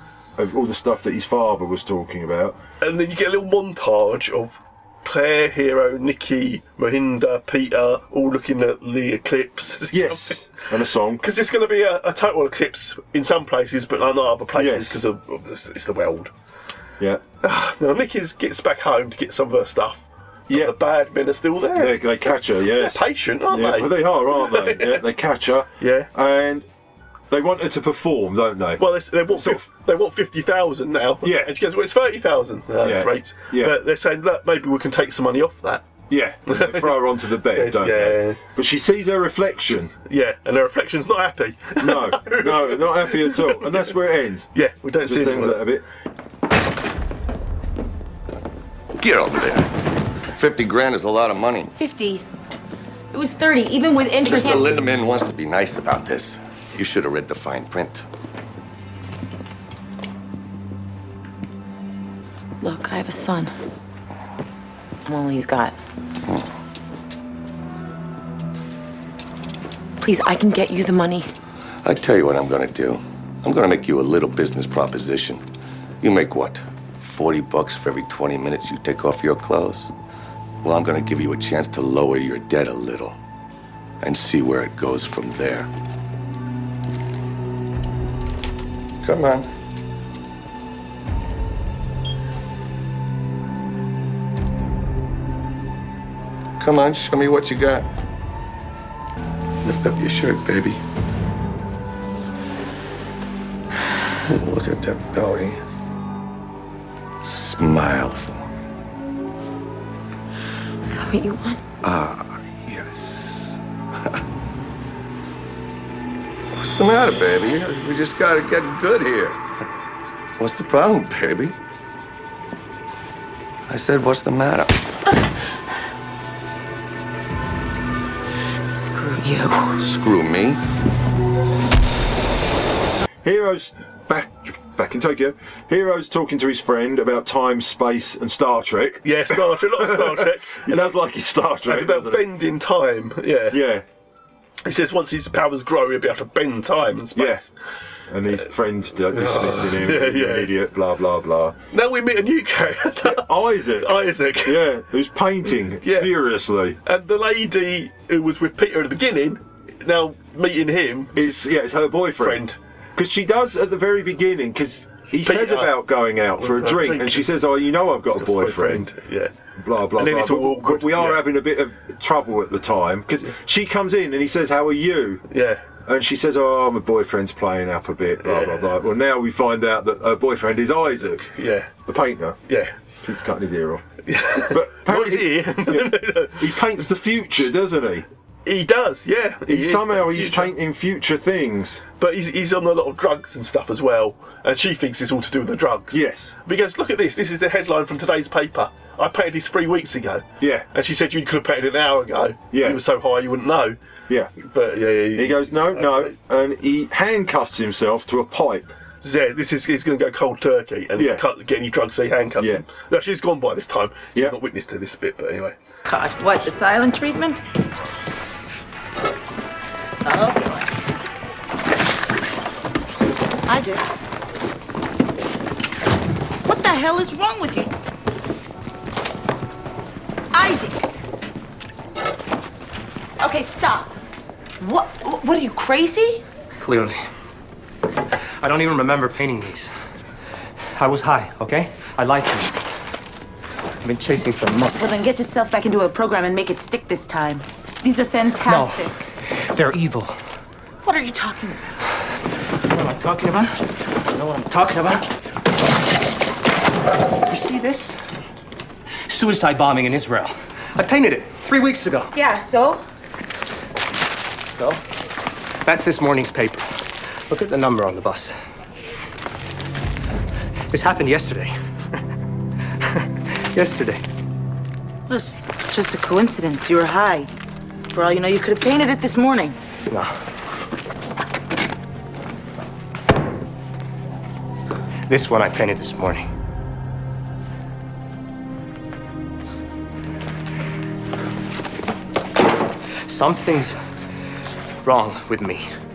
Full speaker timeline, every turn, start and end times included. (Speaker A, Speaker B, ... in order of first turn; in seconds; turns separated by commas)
Speaker A: 0.4-2.6, Speaker B: 2.8-10.4, Speaker A: 9.9-11.2, Speaker B: 11.2-16.3, Speaker A: 14.5-15.0, Speaker B: 17.4-22.0, Speaker A: 20.5-20.7, Speaker A: 21.8-26.6, Speaker B: 22.6-25.0, Speaker B: 25.8-26.1, Speaker A: 27.3-29.6, Speaker B: 28.8-35.8, Speaker A: 31.2-31.5, Speaker A: 32.8-33.8, Speaker A: 36.1-39.9, Speaker B: 36.5-37.0, Speaker B: 37.5-38.4, Speaker B: 40.0-43.9, Speaker A: 41.8-44.5, Speaker B: 44.5-45.6, Speaker A: 45.0-45.8, Speaker C: 49.0-49.7, Speaker C: 50.4-51.7, Speaker D: 51.8-52.2, Speaker D: 53.1-54.7, Speaker C: 54.2-58.0, Speaker D: 62.6-63.5, Speaker D: 65.0-65.8, Speaker D: 70.0-71.3, Speaker C: 71.8-75.4, Speaker C: 76.0-79.9, Speaker C: 80.6-83.2, Speaker C: 84.0-85.7, Speaker C: 89.0-89.5, Speaker C: 96.6-97.9, Speaker C: 99.6-100.8, Speaker C: 104.2-105.6, Speaker C: 107.2-108.5, Speaker D: 110.9-111.6, Speaker C: 111.8-113.5, Speaker C: 116.5-119.4, Speaker C: 120.4-121.5, Speaker C: 123.7-124.8, Speaker D: 128.7-129.8, Speaker C: 129.8-130.6, Speaker A: 133.2-142.2, Speaker B: 139.0-141.0, Speaker B: 141.6-143.6, Speaker A: 143.5-143.8, Speaker B: 144.6-147.5, Speaker A: 147.1-147.4, Speaker A: 148.1-151.6, Speaker B: 149.1-150.5, Speaker B: 151.7-154.6, Speaker A: 153.0-156.8, Speaker B: 155.8-156.1, Speaker B: 156.8-161.5, Speaker A: 161.1-162.4, Speaker B: 162.2-162.6, Speaker A: 162.9-168.9, Speaker B: 165.2-165.7, Speaker B: 166.4-167.3, Speaker B: 168.1-169.3, Speaker A: 169.6-175.2, Speaker B: 169.9-171.2, Speaker B: 175.3-175.6, Speaker A: 175.8-181.3, Speaker B: 178.2-178.7, Speaker B: 181.2-181.7, Speaker A: 181.8-182.4, Speaker B: 182.5-182.7, Speaker A: 183.0-183.8, Speaker B: 184.1-186.5, Speaker A: 184.4-188.1, Speaker B: 188.4-190.5, Speaker A: 189.5-191.8, Speaker B: 192.0-203.8, Speaker A: 195.9-196.3, Speaker A: 200.4-200.7, Speaker A: 202.5-202.8, Speaker B: 204.4-206.1, Speaker A: 205.2-208.7, Speaker B: 209.0-215.6, Speaker A: 211.0-211.2, Speaker E: 215.8-217.4, Speaker E: 220.0-220.7, Speaker E: 223.5-223.8, Speaker E: 226.4-227.7, Speaker E: 230.3-230.8, Speaker E: 233.2-233.9, Speaker E: 234.6-236.2, Speaker F: 236.6-237.0, Speaker F: 238.4-239.7, Speaker F: 240.7-242.5, Speaker E: 242.4-242.8, Speaker F: 243.8-244.7, Speaker E: 244.7-249.1, Speaker F: 248.4-248.9, Speaker F: 249.4-250.2, Speaker E: 250.8-251.8, Speaker F: 252.7-253.6, Speaker F: 254.1-255.1, Speaker F: 257.3-258.0, Speaker F: 259.1-262.1, Speaker E: 262.1-262.8, Speaker F: 264.5-264.8, Speaker F: 265.6-266.6, Speaker F: 267.3-268.4, Speaker F: 270.7-271.5, Speaker F: 273.5-274.0, Speaker E: 275.1-277.3, Speaker E: 277.9-279.6, Speaker F: 285.1-286.2, Speaker F: 293.1-293.8, Speaker F: 294.8-295.7